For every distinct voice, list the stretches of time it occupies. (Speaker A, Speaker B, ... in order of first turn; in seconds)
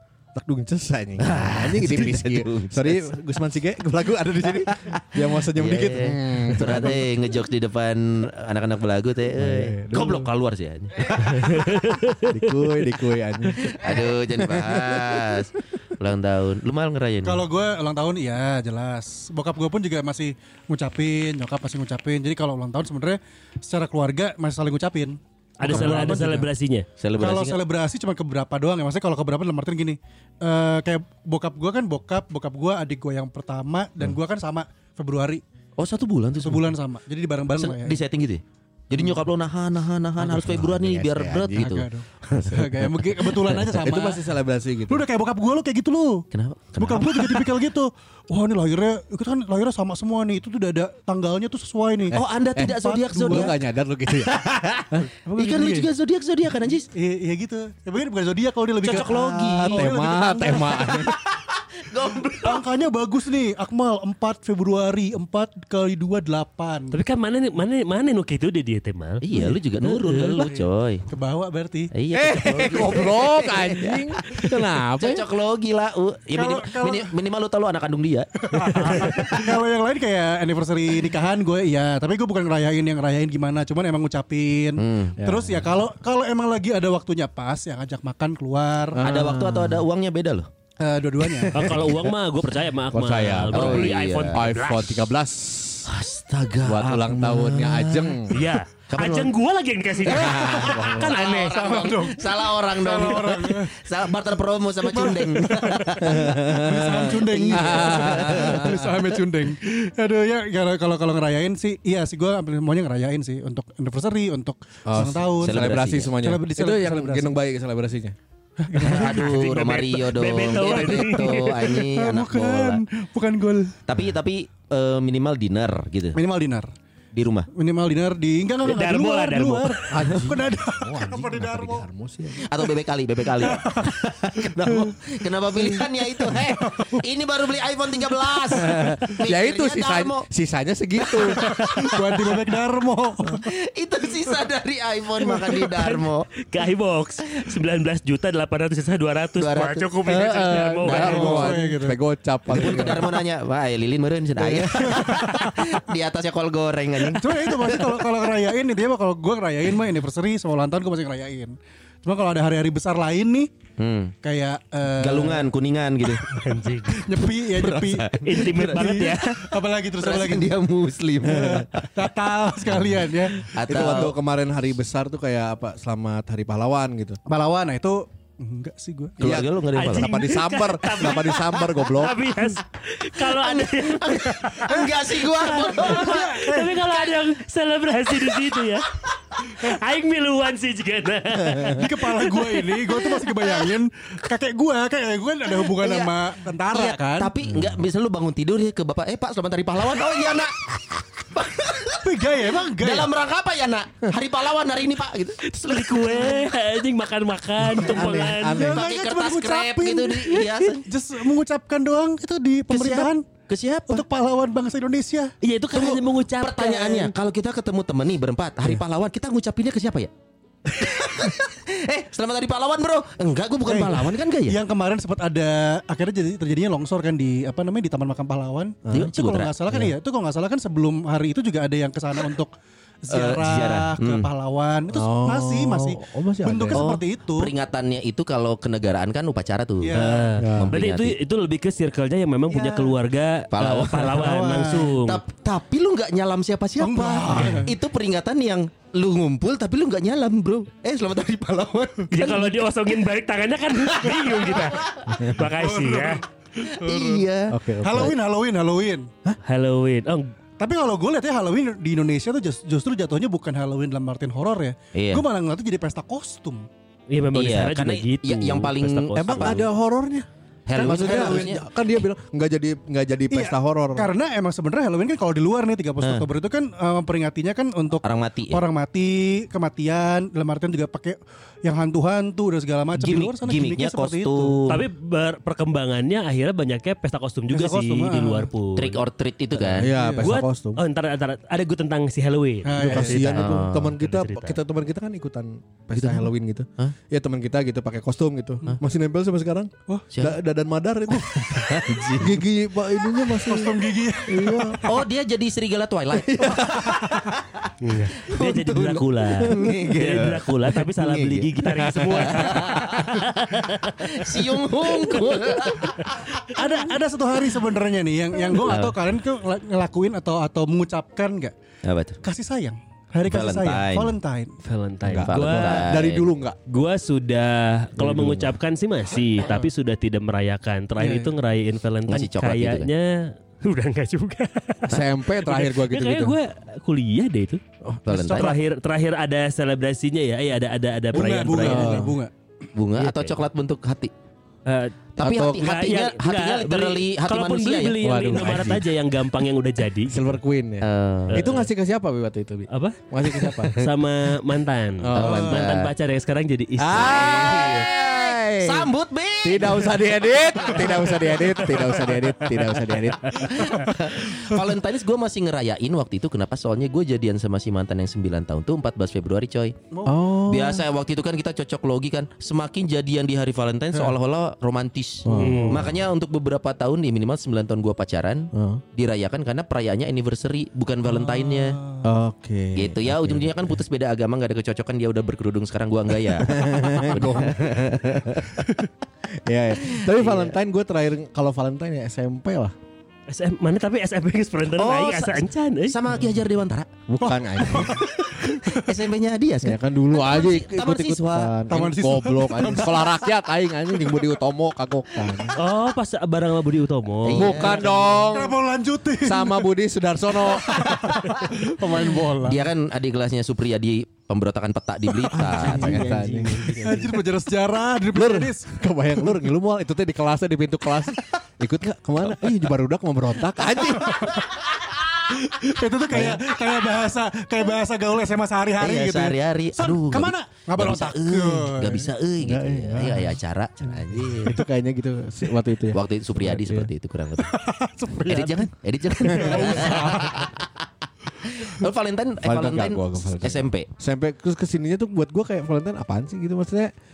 Speaker A: 0.3-7.2, 9.3-10.3, 12.3-15.5, 40.2-41.7, 42.3-43.1, 43.6-45.0, 52.1-55.1, 58.8-61.2, 72.1-75.3, 85.2-85.7, 88.9-89.8, 92.9-95.9, 96.6-98.3, 100.1-101.1, 106.0-109.1, 114.8-118.2, 129.9-132.5, 138.6-141.5, 150.1-153.2, 173.6-177.2, 179.2-182.3, 197.5-197.8, 207.6-208.9, 234.9-236.8, 240.4-240.7, 247.3-247.6, 257.5-258.1, 269.1-274.1, 289.6-290.8, 292.8-304.9, 306.4-307.0, 325.0-326.6, 328.0-328.5, 334.9-336.4, 341.6-342.1, 348.0-348.8, 350.1-353.7, 355.0-355.6, 356.8-358.9, 359.4-363.7, 370.0-370.8, 375.2-375.8, 378.5-378.8, 382.0-383.8, 386.4-388.7, 389.4-392.7, 397.1-398.0, 399.6-405.6, 407.3-408.6, 409.2-411.4, 415.3-417.2, 418.1-424.5, 432.4-433.4, 434.1-436.9, 439.3-439.8, 442.4-446.9
Speaker B: 1.2-3.1, 4.4-11.6, 13.5-17.4, 25.6-26.0, 27.0-27.6, 35.8-36.8, 37.5-41.9, 42.4-43.6, 46.3-47.5, 52.1-53.6, 54.2-56.9, 58.8-62.6, 69.2-71.0, 71.9-79.5, 84.8-85.2, 89.0-90.5, 91.3-91.8, 93.5-94.4, 95.8-98.3, 98.9-99.3, 100.0-109.1, 115.4-116.1, 118.8-122.8, 123.9-126.2, 127.1-127.5, 132.4-140.3, 141.0-142.0, 143.3-146.3, 149.4-149.9, 150.8-151.6, 152.5-158.3, 163.8-164.1, 165.0-166.2, 167.4-171.9, 172.7-174.2, 179.2-180.2, 183.2-186.3, 195.5-196.1, 196.7-206.2, 208.8-210.8, 212.7-214.0, 215.7-220.1, 220.7-224.6, 228.9-229.9, 233.1-234.3, 236.7-241.2, 243.5-244.3, 245.0-252.7, 253.9-254.7, 256.7-258.1, 264.9-265.2, 267.3-269.6, 270.7-271.6, 276.0-276.3, 278.0-278.6, 282.9-284.8, 288.8-289.9, 293.4-293.9, 295.9-296.9, 300.1-300.4, 301.6-302.4, 304.8-313.2, 314.0-316.1, 318.5-318.9, 321.8-322.2, 323.2-324.1, 325.1-326.3, 332.1-332.9, 338.1-338.6, 342.7-344.1, 345.2-348.6, 350.8-351.4, 355.1-355.9, 356.9-362.1, 362.6-369.7, 370.5-381.8, 382.7-388.7, 389.9-390.5, 394.8-396.9, 398.2-401.5, 407.2-408.2, 412.4-416.2, 428.8-434.6, 435.9-437.6, 438.2-440.8, 441.4-443.9
Speaker C: 11.2-12.7, 25.6-26.9, 66.9-69.2, 69.8-70.4, 91.5-95.0, 98.3-101.7, 118.9-121.8, 128.6-129.8, 145.7-151.4, 166.3-167.1, 168.2-169.3, 179.7-191.8, 205.4-208.7, 215.4-217.1, 239.9-245.2, 252.1-256.2, 259.4-260.3, 267.1-269.6, 284.7-289.0, 290.2-294.6, 307.8-314.3, 324.6-325.9, 326.7-337.6, 338.3-342.1, 343.0-343.4, 344.6-350.2, 351.3-351.7, 352.7-353.0, 353.7-357.5, 375.3-375.9, 393.3-396.0, 405.6-407.8
Speaker D: 17.2-26.5, 27.2-35.4, 36.4-38.0, 41.5-44.2, 44.9-46.2, 46.8-53.5, 55.2-55.9, 56.9-61.0, 62.3-67.0, 70.3-71.9, 76.3-77.1, 78.4-89.0, 90.8-91.8, 100.3-100.8, 101.4-103.8, 104.8-115.7, 116.2-117.4, 118.6-119.2, 121.6-123.8, 126.1-126.7, 127.5-131.8, 133.4-134.8, 135.6-137.0, 141.4-143.4, 150.9-152.0, 154.4-155.6, 157.1-163.5, 164.2-165.5, 166.3-170.6, 171.2-173.5, 177.3-179.2, 184.7-186.8, 191.7-197.3, 202.0-203.1, 208.4-213.2, 213.9-215.3, 223.7-232.5, 233.0-237.5, 239.8-240.2, 242.5-243.0, 244.0-244.9, 246.8-247.7, 255.4-257.2, 257.8-259.1, 260.6-266.7, 270.7-271.6, 273.3-284.8, 287.5-288.5, 289.8-290.3, 292.6-293.3, 303.3-305.0, 316.4-321.5, 322.2-324.5, 331.0-331.3, 338.1-338.6, 341.1-342.3, 369.9-370.2, 375.3-375.7, 381.0-382.1, 397.2-398.8, 401.7-403.2, 408.3-409.7, 410.4-412.6, 415.3-418.8, 424.0-424.4, 425.3-432.1, 437.4-438.7, 439.2-440.5